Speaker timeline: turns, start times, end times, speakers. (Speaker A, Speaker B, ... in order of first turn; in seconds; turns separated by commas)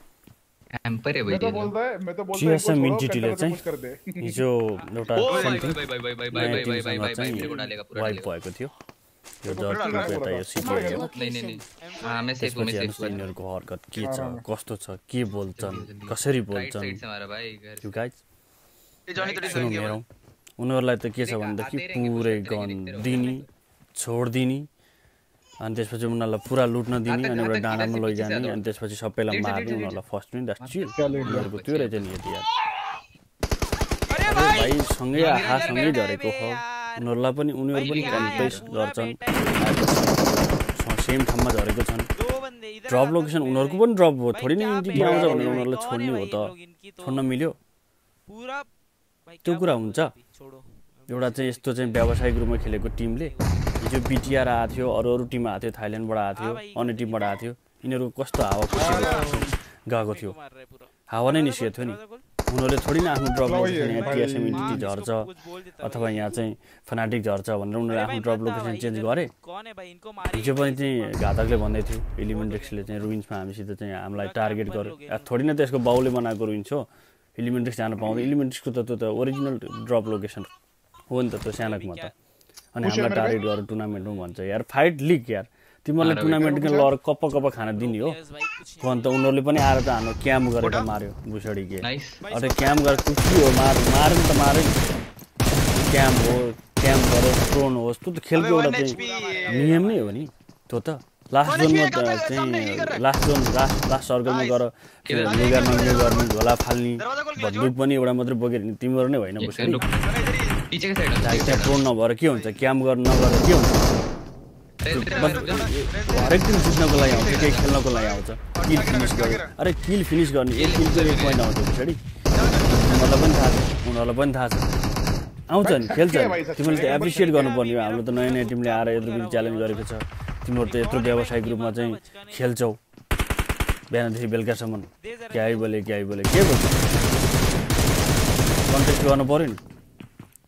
Speaker A: 0.8-1.7, Speaker B: 1.3-4.4, Speaker C: 2.3-3.6, Speaker C: 4.2-5.8, Speaker D: 4.8-5.4, Speaker E: 5.2-5.5, Speaker A: 5.3-8.3, Speaker C: 6.3-8.7, Speaker C: 9.4-11.1, Speaker B: 9.5-11.1, Speaker E: 9.7-10.2, Speaker A: 11.1-13.3, Speaker D: 11.2-12.4, Speaker C: 12.4-17.0, Speaker B: 14.0-14.4, Speaker A: 15.5-18.0, Speaker C: 17.8-18.2, Speaker E: 19.1-20.0, Speaker A: 19.2-19.9, Speaker C: 19.4-20.1, Speaker C: 20.6-24.7, Speaker A: 21.2-23.5, Speaker C: 25.6-32.5, Speaker A: 27.1-28.7, Speaker A: 29.3-30.0, Speaker A: 30.6-32.1, Speaker B: 30.9-31.5, Speaker D: 34.1-37.0, Speaker C: 34.2-42.1, Speaker A: 35.1-36.0, Speaker D: 37.7-40.4, Speaker A: 37.8-38.6, Speaker D: 42.2-47.3, Speaker C: 42.9-47.6, Speaker B: 44.9-45.7, Speaker D: 48.3-48.7, Speaker D: 49.3-54.0, Speaker C: 49.4-50.1, Speaker C: 51.1-60.4, Speaker D: 56.3-57.4, Speaker B: 58.8-59.5, Speaker E: 58.8-59.2, Speaker D: 60.0-62.3, Speaker C: 61.1-62.0, Speaker C: 62.5-69.3, Speaker B: 63.4-64.8, Speaker D: 64.0-66.4, Speaker D: 67.9-73.1, Speaker C: 70.3-80.5, Speaker D: 74.1-75.3, Speaker C: 81.1-82.1, Speaker D: 81.6-82.1, Speaker C: 82.8-88.2, Speaker B: 82.8-83.5, Speaker A: 86.0-86.5, Speaker B: 86.3-86.9, Speaker D: 87.7-89.3, Speaker C: 88.8-94.8, Speaker E: 90.6-90.9, Speaker A: 91.8-92.2, Speaker D: 92.2-94.9, Speaker C: 95.7-109.9, Speaker E: 98.3-99.7, Speaker B: 98.9-99.9, Speaker D: 99.2-100.2, Speaker E: 101.4-103.0, Speaker E: 104.3-104.7, Speaker A: 105.1-105.6, Speaker E: 105.3-106.3, Speaker E: 107.0-107.8, Speaker A: 109.4-109.9, Speaker D: 109.6-110.5, Speaker E: 109.9-110.6, Speaker A: 110.7-111.8, Speaker C: 111.2-113.8, Speaker A: 114.8-115.4, Speaker C: 114.9-122.0, Speaker E: 114.9-119.5, Speaker E: 120.5-121.4, Speaker E: 122.3-123.6, Speaker C: 122.7-124.7, Speaker C: 125.5-132.8, Speaker B: 125.6-127.6, Speaker D: 126.8-130.0, Speaker D: 130.6-132.6, Speaker C: 133.9-136.9, Speaker D: 135.0-135.9, Speaker D: 136.6-137.2, Speaker C: 138.7-139.6